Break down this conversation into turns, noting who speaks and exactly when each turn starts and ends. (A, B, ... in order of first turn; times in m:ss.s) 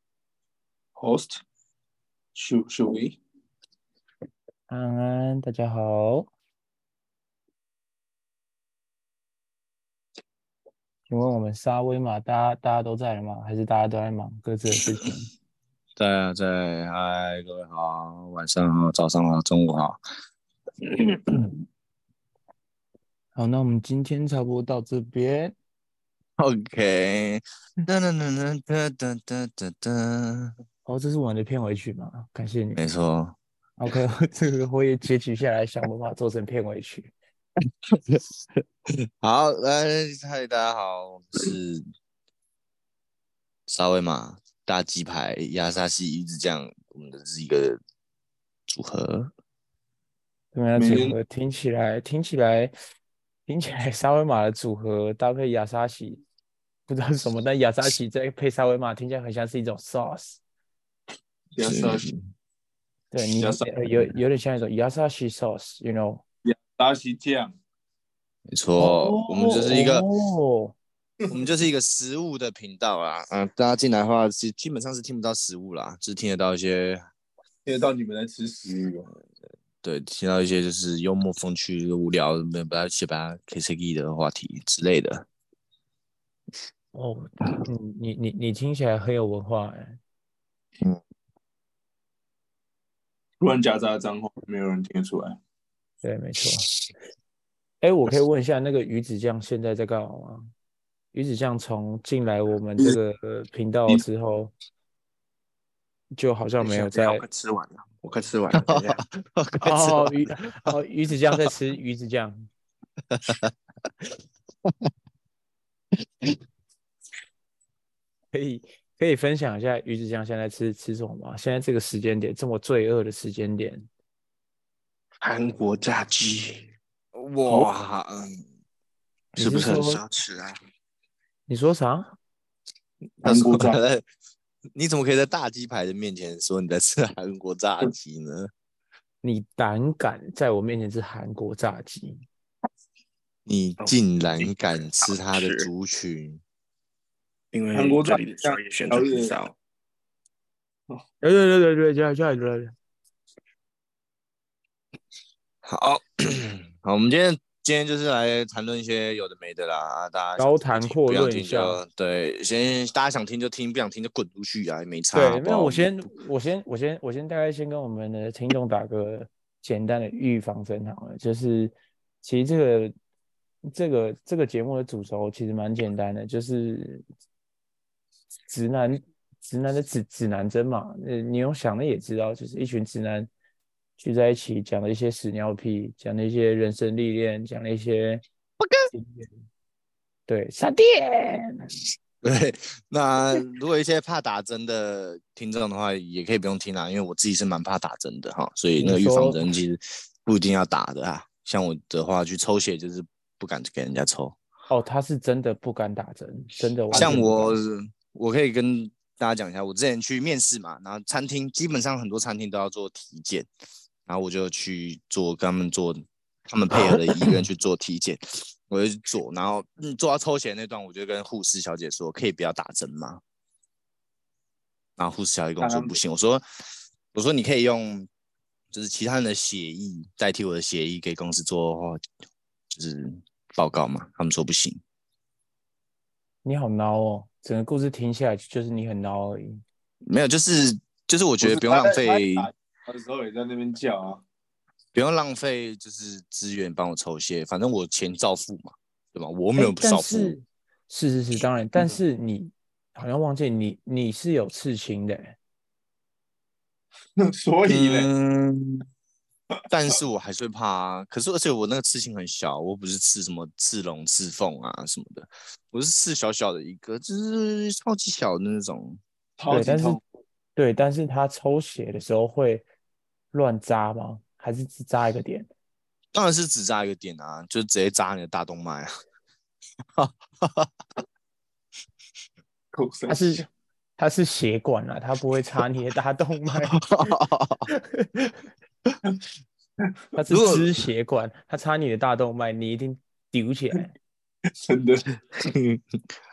0:01.0-0:01.4 A
0:02.3-0:03.2 A
0:04.7-0:06.3 B
0:11.1-0:15.2 B
0:16.0-0:20.0 C
0:23.3-0:25.5 B
0:26.4-0:30.5 C
0:30.8-0:32.8 B
0:32.8-0:33.4 C
0:33.8-0:37.1 B
0:39.2-0:41.8 C
0:43.7-0:47.8 C
0:48.7-0:49.3 C
0:50.5-0:52.7 B
0:50.7-0:51.2 A
0:53.5-0:56.2 B
0:56.9-1:00.4 B
1:01.5-1:02.1 A
1:01.6-1:02.2 C
1:03.1-1:06.2 B
1:03.2-1:03.7 A
1:06.4-1:07.5 A
1:08.5-1:10.0 C
1:08.8-1:10.7 B
1:11.3-1:17.1 C
1:17.6-1:19.1 A
1:19.8-1:25.2 C
1:26.9-1:30.0 B
1:33.4-1:35.4 A
1:36.0-1:36.7 B
1:37.8-1:40.5 B
1:41.1-1:44.5 B
1:46.1-1:47.2 B
1:46.6-1:49.0 D
1:48.5-1:50.1 C
1:49.6-1:52.5 B
1:53.2-1:53.5 C
1:58.3-2:03.9 B
2:05.2-2:06.7 D
2:07.1-2:08.3 C
2:09.3-2:10.5 C
2:09.4-2:10.0 B
2:11.5-2:12.1 B
2:13.2-2:13.8 A
2:13.2-2:14.0 C
2:14.7-2:18.5 C
2:19.2-2:22.2 B
2:23.4-2:26.4 C
2:23.8-2:25.7 D
2:27.5-2:29.5 D
2:27.7-2:29.3 A
2:31.2-2:32.7 B
2:35.6-2:46.1 C
2:40.4-2:41.8 B
2:45.1-2:52.9 B
2:53.6-2:57.0 B
2:58.5-3:03.3 B
3:04.0-3:08.2 B
3:08.6-3:08.9 C
3:08.9-3:09.3 B
3:10.3-3:11.7 B
3:12.2-3:24.4 C
3:18.8-3:19.4 B
3:24.7-3:27.5 B
3:26.9-3:27.2 A
3:26.9-3:33.5 C
3:34.1-3:43.2 C
3:45.0-3:46.4 C
3:45.6-3:46.0 A
3:47.1-3:48.1 C
3:48.7-3:52.0 C
3:52.7-3:54.8 C
3:56.4-3:59.6 B
4:00.1-4:02.5 C
4:01.4-4:04.2 A
4:04.9-4:10.3 C
4:09.6-4:15.4 B
4:17.2-4:18.1 A
4:17.7-4:18.8 C
4:19.7-4:29.0 C
4:29.4-4:30.0 A
4:29.5-4:30.0 B
4:30.6-4:32.6 B
4:33.3-4:35.5 B
4:36.1-4:38.9 C
4:40.0-4:40.7 C
4:42.7-4:43.4 A
4:43.1-4:43.5 B
4:44.0-4:46.8 B
4:46.8-4:47.7 C
4:47.7-4:48.4 B
4:50.2-4:53.9 B
4:50.3-4:50.6 C
4:54.6-4:55.0 A